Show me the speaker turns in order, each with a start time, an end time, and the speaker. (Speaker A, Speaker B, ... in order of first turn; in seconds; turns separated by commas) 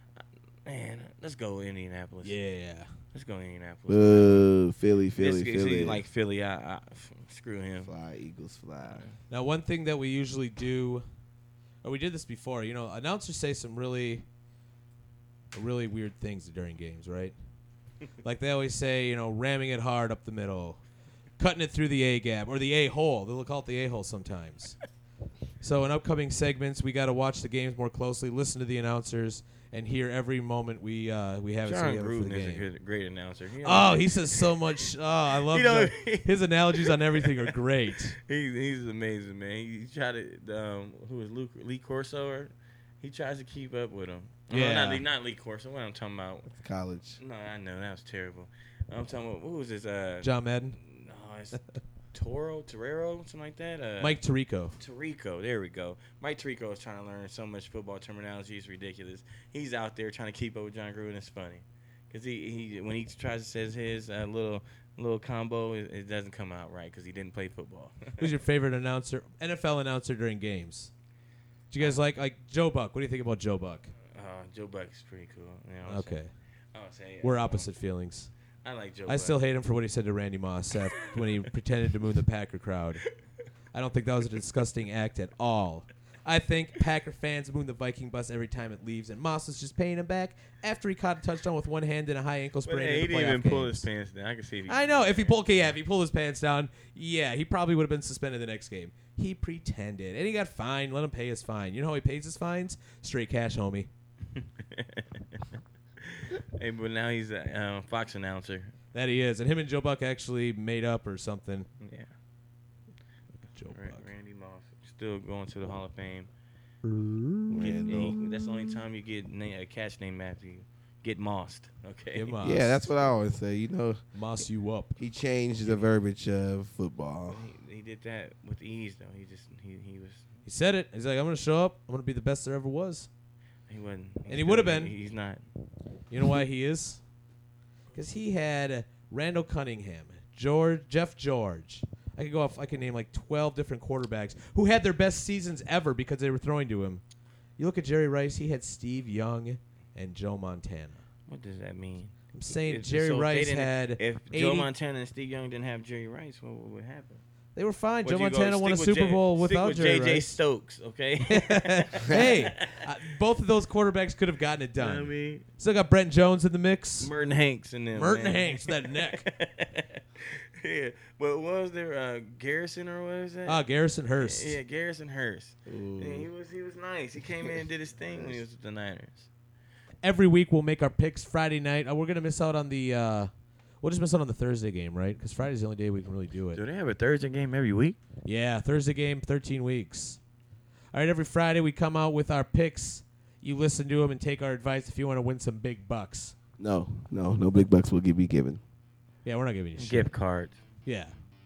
Speaker A: 0.7-2.4, Speaker B: 2.2-2.9, Speaker A: 3.1-4.5, Speaker C: 3.9-6.0, Speaker A: 5.2-7.9, Speaker C: 7.8-9.1, Speaker A: 8.9-9.1, Speaker B: 9.3-11.1, Speaker B: 11.8-14.2, Speaker B: 15.5-17.3, Speaker B: 18.2-20.8, Speaker B: 21.4-24.8, Speaker B: 25.6-32.7, Speaker A: 31.7-34.6, Speaker B: 33.6-38.2, Speaker A: 35.3-37.5, Speaker A: 38.2-46.5, Speaker B: 44.5-45.0, Speaker C: 46.5-47.2, Speaker A: 47.2-51.6, Speaker B: 50.2-50.8, Speaker A: 52.1-54.2, Speaker B: 54.0-54.8, Speaker A: 54.8-68.3, Speaker B: 68.2-70.9, Speaker B: 71.7-73.9, Speaker A: 74.1-76.2, Speaker B: 75.9-76.3, Speaker A: 76.7-77.7, Speaker B: 77.2-78.3, Speaker A: 78.6-79.4, Speaker B: 79.1-83.0, Speaker B: 83.7-93.9, Speaker A: 92.7-95.7, Speaker B: 94.7-103.9, Speaker A: 104.3-105.4, Speaker A: 106.0-108.7, Speaker B: 108.9-111.7, Speaker A: 111.8-112.1, Speaker B: 113.5-114.1, Speaker A: 113.7-116.3, Speaker B: 116.8-118.1, Speaker C: 117.5-118.2, Speaker A: 117.6-122.4, Speaker B: 122.1-122.9, Speaker C: 122.4-124.0, Speaker B: 124.1-125.0, Speaker C: 125.0-127.5, Speaker A: 127.3-130.3, Speaker B: 130.5-133.1, Speaker A: 133.7-135.4, Speaker B: 134.3-134.9, Speaker B: 136.1-137.0, Speaker B: 137.9-147.0, Speaker B: 147.6-151.0, Speaker A: 151.3-157.2, Speaker B: 152.3-154.7, Speaker B: 157.6-160.3, Speaker A: 158.0-162.9, Speaker B: 161.3-167.1, Speaker A: 164.8-165.4, Speaker A: 167.0-179.3, Speaker B: 167.9-169.3, Speaker B: 173.5-174.6, Speaker C: 175.7-176.3, Speaker C: 177.3-177.6, Speaker C: 178.1-178.4, Speaker B: 180.0-183.3, Speaker B: 183.8-186.6, Speaker A: 186.5-188.0, Speaker B: 188.2-190.2, Speaker B: 190.9-196.4, Speaker C: 196.6-198.6, Speaker B: 199.2-200.1, Speaker A: 199.8-200.6, Speaker B: 200.8-201.2